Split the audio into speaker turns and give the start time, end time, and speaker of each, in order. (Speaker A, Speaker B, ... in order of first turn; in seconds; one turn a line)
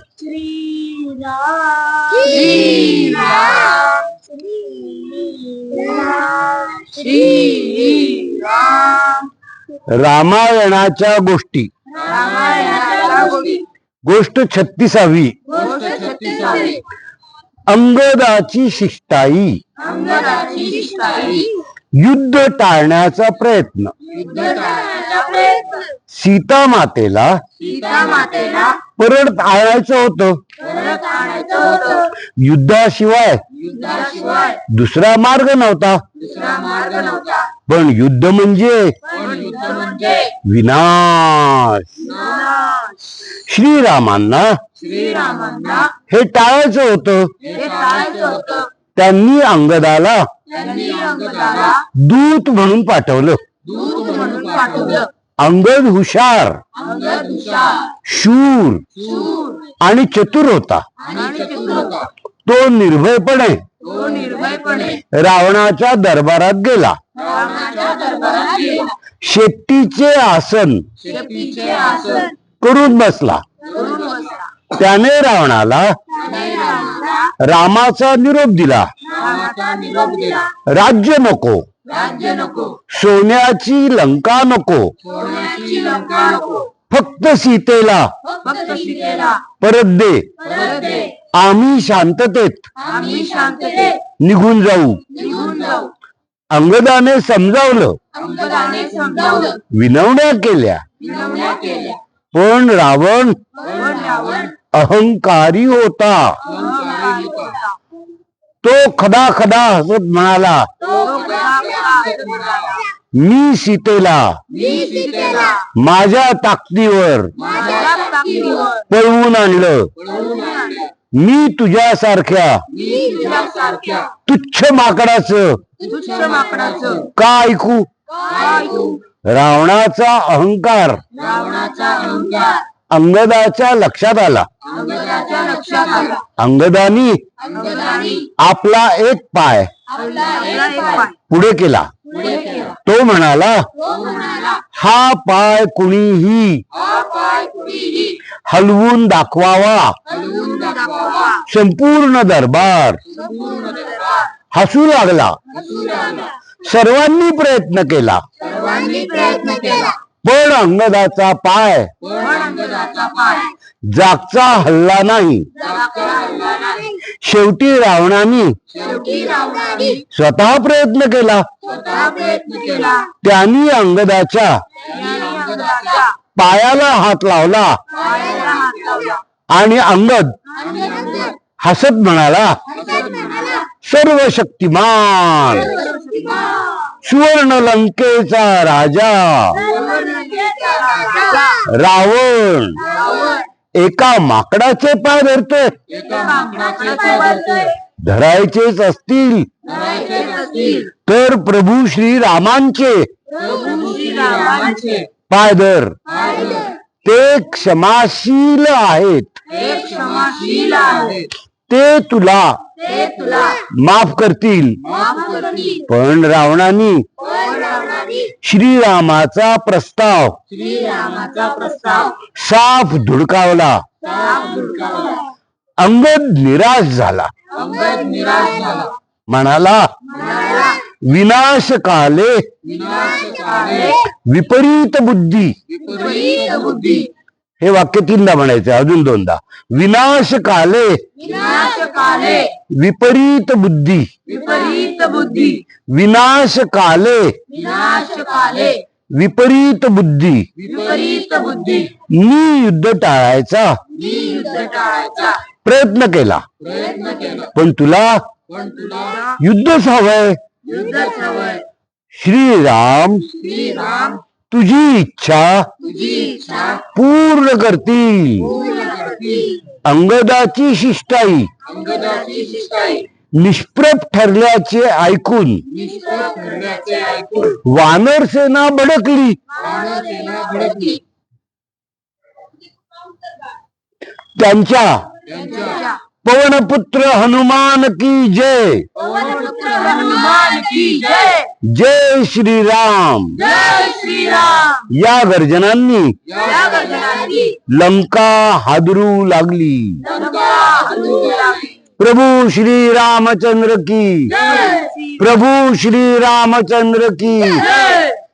Speaker A: 0.2-4.2
Speaker A: 4.8-9.3
Speaker B: 9.9-11.7
Speaker A: 11.9-13.7
Speaker B: 14.1-15.4
Speaker A: 15.5-16.8
Speaker B: 17.7-19.6
Speaker A: 19.8-21.6
Speaker B: 22.0-23.9
Speaker A: 24.1-25.9
Speaker B: 26.1-27.4
Speaker A: 27.6-28.9
Speaker B: 28.9-30.4
Speaker A: 30.6-32.1
Speaker B: 32.2-33.4
Speaker A: 33.6-34.6
Speaker B: 34.7-36.0
Speaker A: 36.2-37.5
Speaker B: 37.7-39.0
Speaker A: 39.1-40.4
Speaker B: 40.4-42.0
Speaker A: 42.0-43.4
Speaker B: 43.3-44.6
Speaker A: 44.8-46.0
Speaker B: 46.1-47.3
Speaker A: 47.4-48.7
Speaker B: 49.0-50.3
Speaker A: 50.5-51.9
Speaker B: 51.9-53.4
Speaker A: 53.7-55.1
Speaker B: 55.4-56.6
Speaker A: 56.8-57.9
Speaker B: 58.0-58.8
Speaker A: 59.0-59.7
Speaker B: 59.8-60.9
Speaker A: 61.0-62.1
Speaker B: 62.5-63.6
Speaker A: 63.8-65.0
Speaker B: 64.9-67.0
Speaker A: 67.2-69.0
Speaker B: 69.2-70.9
Speaker A: 71.0-72.3
Speaker B: 72.6-73.4
Speaker A: 73.6-74.6
Speaker B: 74.7-76.0
Speaker A: 76.2-77.3
Speaker B: 77.4-78.9
Speaker A: 79.1-80.5
Speaker B: 80.7-81.7
Speaker A: 81.9-82.8
Speaker B: 82.9-84.9
Speaker A: 85.1-86.7
Speaker B: 86.9-88.1
Speaker A: 88.3-89.5
Speaker B: 89.6-90.3
Speaker A: 90.4-91.2
Speaker B: 91.3-92.7
Speaker A: 92.8-94.1
Speaker B: 94.1-95.1
Speaker A: 95.1-95.9
Speaker B: 96.5-98.0
Speaker A: 98.1-99.6
Speaker B: 99.7-100.8
Speaker A: 101.0-102.0
Speaker B: 102.3-103.4
Speaker A: 103.6-104.5
Speaker B: 104.7-106.4
Speaker A: 106.5-107.8
Speaker B: 108.6-110.7
Speaker A: 110.9-112.9
Speaker B: 113.1-114.4
Speaker A: 114.7-115.6
Speaker B: 115.7-117.3
Speaker A: 117.4-118.9
Speaker B: 118.9-119.9
Speaker A: 120.1-120.9
Speaker B: 121.1-122.6
Speaker A: 122.8-124.1
Speaker B: 124.3-125.6
Speaker A: 125.8-127.1
Speaker B: 127.1-127.9
Speaker A: 128.2-129.0
Speaker B: 129.2-131.0
Speaker A: 131.1-132.7
Speaker B: 132.9-134.5
Speaker A: 134.7-136.3
Speaker B: 136.4-137.2
Speaker A: 137.4-138.3
Speaker B: 138.4-139.7
Speaker A: 139.9-141.2
Speaker B: 141.3-141.9
Speaker A: 142.1-142.8
Speaker B: 142.8-143.7
Speaker A: 143.9-144.6
Speaker B: 144.7-146.6
Speaker A: 146.8-148.2
Speaker B: 148.5-150.0
Speaker A: 150.1-151.5
Speaker B: 151.5-153.0
Speaker A: 153.2-154.3
Speaker B: 154.5-155.4
Speaker A: 155.6-156.3
Speaker B: 156.6-158.2
Speaker A: 158.4-160.0
Speaker B: 160.2-161.9
Speaker A: 162.1-163.5
Speaker B: 163.9-165.5
Speaker A: 165.6-167.0
Speaker B: 167.1-168.6
Speaker A: 168.8-170.0
Speaker B: 170.1-171.5
Speaker A: 171.7-173.1
Speaker B: 173.2-174.6
Speaker A: 174.8-176.2
Speaker B: 176.3-177.8
Speaker A: 177.9-179.2
Speaker B: 179.5-180.4
Speaker A: 180.6-181.4
Speaker B: 181.6-182.6
Speaker A: 182.8-183.6
Speaker B: 183.7-185.8
Speaker A: 185.7-186.9
Speaker B: 187.0-189.7
Speaker A: 189.6-191.7
Speaker B: 191.6-192.8
Speaker A: 192.9-193.5
Speaker B: 193.8-195.8
Speaker A: 195.9-197.8
Speaker B: 198.0-199.5
Speaker A: 199.7-200.9
Speaker B: 201.0-203.1
Speaker A: 203.3-205.1
Speaker B: 205.3-206.0
Speaker A: 206.2-206.7
Speaker B: 207.0-209.3
Speaker A: 209.5-211.3
Speaker B: 211.7-212.6
Speaker A: 212.8-213.7
Speaker B: 213.7-214.8
Speaker A: 214.9-215.9
Speaker B: 215.9-217.1
Speaker A: 217.2-218.3
Speaker B: 218.3-220.4
Speaker A: 220.5-222.2
Speaker B: 222.3-223.8
Speaker A: 224.0-225.3
Speaker B: 225.8-227.3
Speaker A: 227.6-228.9
Speaker B: 229.3-229.9
Speaker A: 230.1-230.8
Speaker B: 230.9-232.5
Speaker A: 232.7-234.1
Speaker B: 234.0-235.6
Speaker A: 235.8-237.1
Speaker B: 237.6-241.0
Speaker A: 241.2-242.6
Speaker B: 242.7-244.1
Speaker A: 244.3-245.6
Speaker B: 245.9-247.4
Speaker A: 247.5-248.8
Speaker B: 249.1-250.5
Speaker A: 250.6-252.0
Speaker B: 252.1-253.8
Speaker A: 253.9-255.5
Speaker B: 255.6-256.4
Speaker A: 256.8-257.5
Speaker B: 257.4-258.2
Speaker A: 258.6-259.4
Speaker B: 259.4-260.4
Speaker A: 260.6-261.6
Speaker B: 262.1-263.4
Speaker A: 263.4-264.2
Speaker B: 264.5-265.7
Speaker A: 265.9-266.8
Speaker B: 266.8-268.6
Speaker A: 268.6-269.5
Speaker B: 269.8-271.5
Speaker A: 271.9-273.0
Speaker B: 273.4-275.8
Speaker A: 275.9-277.5
Speaker B: 277.5-279.4
Speaker A: 279.6-281.0
Speaker B: 284.4-285.0
Speaker A: 285.3-286.0
Speaker B: 286.2-288.9
Speaker A: 289.0-291.5
Speaker B: 291.6-293.4
Speaker A: 293.4-294.9
Speaker B: 294.9-296.1
Speaker A: 296.4-297.6
Speaker B: 297.7-300.1
Speaker A: 300.0-301.8
Speaker B: 302.0-304.4
Speaker A: 304.4-305.2
Speaker B: 305.2-307.9
Speaker A: 307.7-308.1